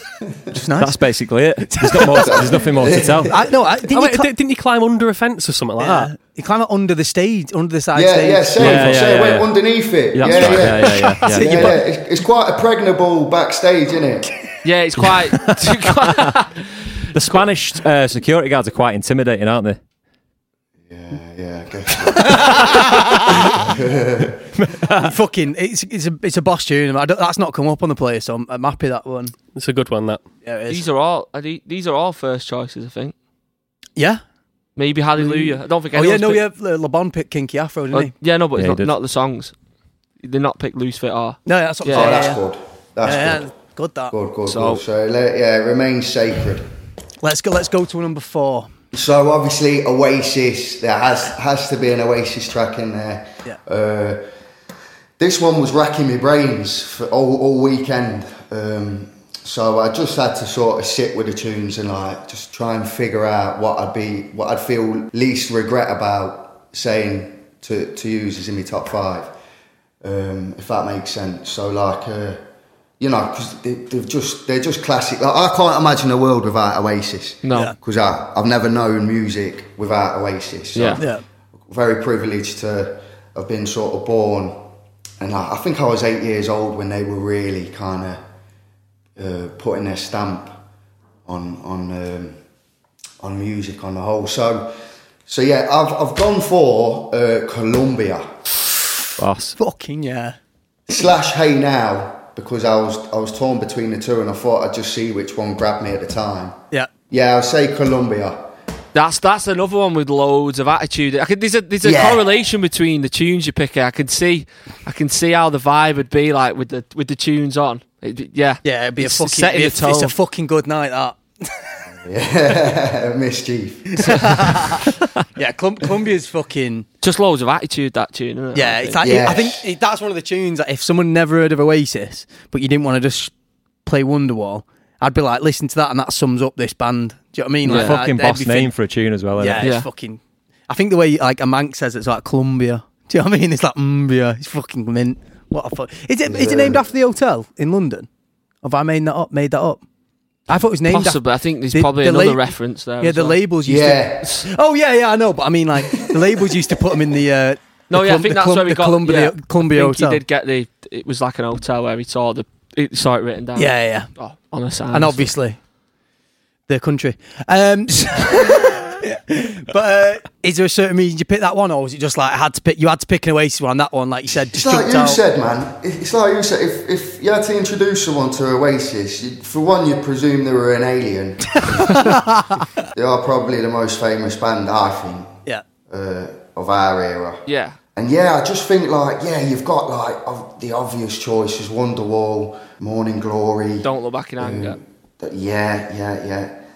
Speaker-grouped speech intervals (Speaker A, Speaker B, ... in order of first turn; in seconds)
Speaker A: 0.5-1.0, 1.6-2.6, 3.3-4.3, 5.8-9.1, 10.2-11.8, 22.2-22.8, 24.9-29.4, 30.4-30.8, 34.0-34.2, 35.2-38.1, 41.4-42.4, 43.0-44.1, 47.2-48.7, 81.0-81.2, 99.6-100.4, 118.6-121.8, 124.0-126.9, 128.5-133.3, 133.8-138.7, 139.4-148.1, 148.6-149.8, 150.5-160.2, 163.6-164.1, 164.9-165.6, 166.7-175.2, 181.8-182.2
Speaker B: 0.7-3.4, 8.6-9.5, 10.1-11.8, 15.0-15.5, 17.1-19.8, 24.6-25.1, 38.5-38.9, 99.2-99.6, 137.7-139.7
Speaker C: 2.2-3.3, 7.9-14.3, 20.9-24.4, 41.9-43.5, 44.1-46.7, 48.9-54.2, 55.2-69.3, 70.0-72.4, 73.0-81.0, 81.7-84.6, 85.2-88.2, 89.2-90.6, 91.2-92.3, 93.2-94.7, 95.3-98.3, 100.9-106.6, 107.1-108.5, 111.8-112.2, 122.0-124.2, 129.0-129.6, 146.2-146.8, 153.6-154.4, 174.5-182.1, 182.9-187.4, 187.9-193.9, 194.4-196.5
Speaker D: 3.9-6.1, 29.5-30.2
Speaker E: 14.6-16.6, 17.2-17.4, 30.7-33.1, 34.8-36.4, 37.9-39.5, 40.2-42.2, 44.5-44.8, 77.4-77.7, 80.7-81.0, 108.9-120.1, 127.0-129.0, 137.6-138.1, 139.6-139.9, 150.8-153.4, 157.9-165.3, 187.4-187.8, 193.8-194.8